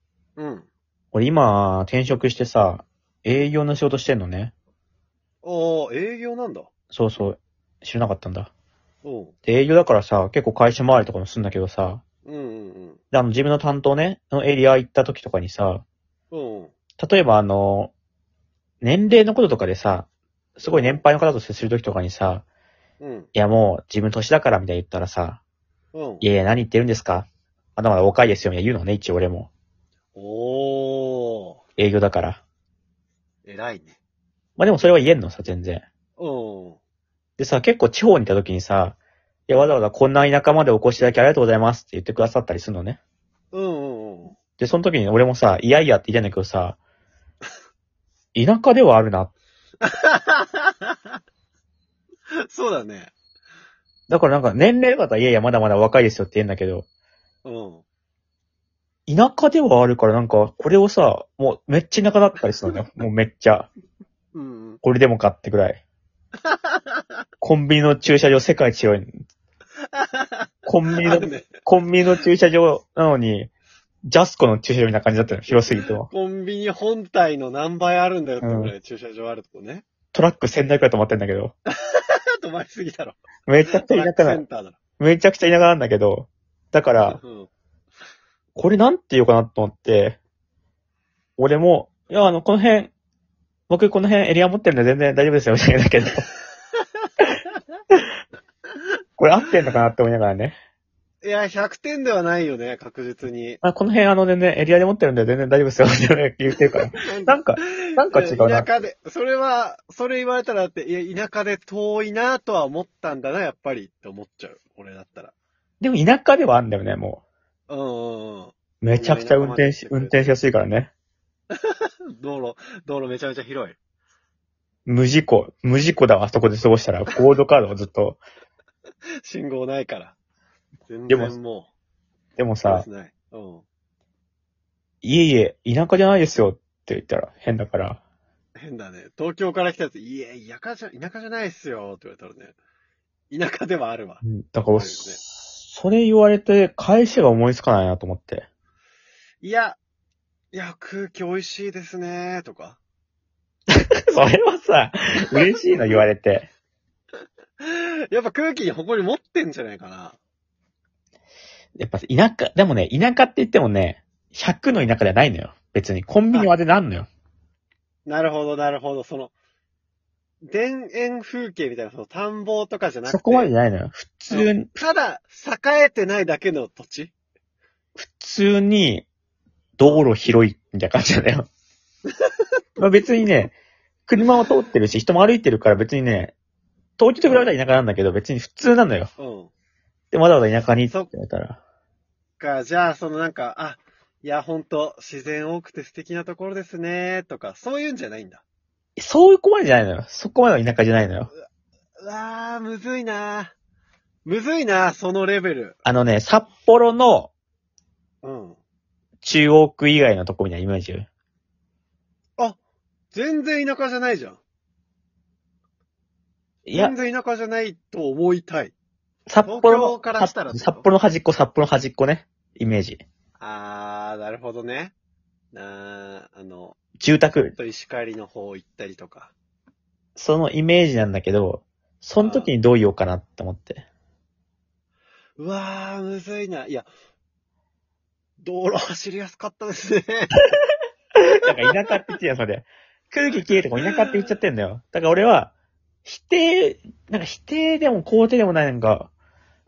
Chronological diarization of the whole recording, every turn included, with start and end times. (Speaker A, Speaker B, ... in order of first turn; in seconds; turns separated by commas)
Speaker A: 0.4-0.7, Speaker B: 1.1-4.5, Speaker A: 5.4-6.7, Speaker B: 6.9-8.5, Speaker A: 9.0-9.3, Speaker B: 9.4-12.0, Speaker A: 12.2-13.0, Speaker B: 13.1-15.8, Speaker A: 16.3-16.7, Speaker B: 17.0-17.9, Speaker B: 18.8-22.4, Speaker A: 20.6-21.0, Speaker A: 23.0-23.3, Speaker B: 23.3-25.4, Speaker A: 25.9-26.3, Speaker B: 26.2-29.5, Speaker A: 30.1-31.6, Speaker B: 31.8-32.4, Speaker A: 33.5-34.0, Speaker B: 34.6-35.8, Speaker A: 36.2-36.8, Speaker B: 37.4-39.0, Speaker B: 39.5-43.0, Speaker A: 43.5-44.4, Speaker B: 44.6-46.8, Speaker B: 48.3-49.3, Speaker A: 49.8-51.0, Speaker A: 52.5-53.1, Speaker B: 54.1-56.8, Speaker A: 57.5-57.8, Speaker B: 59.1-63.7, Speaker A: 64.3-64.8, Speaker B: 64.8-65.8, Speaker A: 66.5-67.0, Speaker B: 67.4-69.2, Speaker A: 69.9-70.5, Speaker B: 70.7-73.5, Speaker A: 71.0-71.6, Speaker B: 74.0-76.1, Speaker A: 75.5-79.8, Speaker B: 78.4-78.7, Speaker B: 80.1-81.5, Speaker A: 81.7-83.2, Speaker B: 83.5-84.4, Speaker A: 83.7-84.8, Speaker B: 85.0-87.2, Speaker A: 87.0-87.5, Speaker B: 88.5-90.2, Speaker B: 91.4-92.9, Speaker B: 93.7-96.3, Speaker B: 99.2-100.5, Speaker A: 101.2-103.6, Speaker B: 103.6-108.7, Speaker A: 106.7-115.3, Speaker B: 115.8-117.2, Speaker A: 117.7-120.2, Speaker B: 118.8-120.9, Speaker A: 121.5-123.8, Speaker B: 124.9-128.2, Speaker A: 129.2-130.1, Speaker A: 130.9-131.7, Speaker B: 131.1-131.3, Speaker B: 132.4-132.9, Speaker A: 132.7-133.6, Speaker B: 135.0-138.0, Speaker A: 138.6-142.5, Speaker A: 143.3-145.2, Speaker B: 144.2-148.5, Speaker A: 149.4-149.8, Speaker A: 150.5-152.8, Speaker B: 153.7-156.5, Speaker A: 155.3-156.0, Speaker A: 157.6-160.2, Speaker B: 161.8-167.1, Speaker A: 168.1-169.3, Speaker A: 170.4-173.5, Speaker B: 173.1-174.7, Speaker A: 174.3-177.1, Speaker B: 178.0-179.1, Speaker B: 179.8-181.5, Speaker B: 182.8-183.6, Speaker B: 184.1-186.3, Speaker B: 187.0-189.1, Speaker A: 187.2-187.5, Speaker A: 189.2-189.5, Speaker B: 190.1-191.6, Speaker A: 192.4-198.4, Speaker B: 199.0-201.3, Speaker A: 202.0-203.5, Speaker A: 204.2-205.8, Speaker B: 205.8-207.3, Speaker A: 208.2-208.6, Speaker B: 209.2-211.1, Speaker A: 213.1-214.4, Speaker B: 216.7-216.9, Speaker A: 216.7-218.7, Speaker B: 219.3-223.0, Speaker A: 219.4-220.8, Speaker A: 223.4-224.9, Speaker A: 225.5-226.8, Speaker B: 227.0-227.6, Speaker A: 227.6-229.3, Speaker B: 230.2-233.8, Speaker A: 232.2-232.5, Speaker A: 235.4-236.9, Speaker A: 238.4-240.3, Speaker B: 241.2-245.5, Speaker A: 243.8-244.2, Speaker B: 246.1-249.1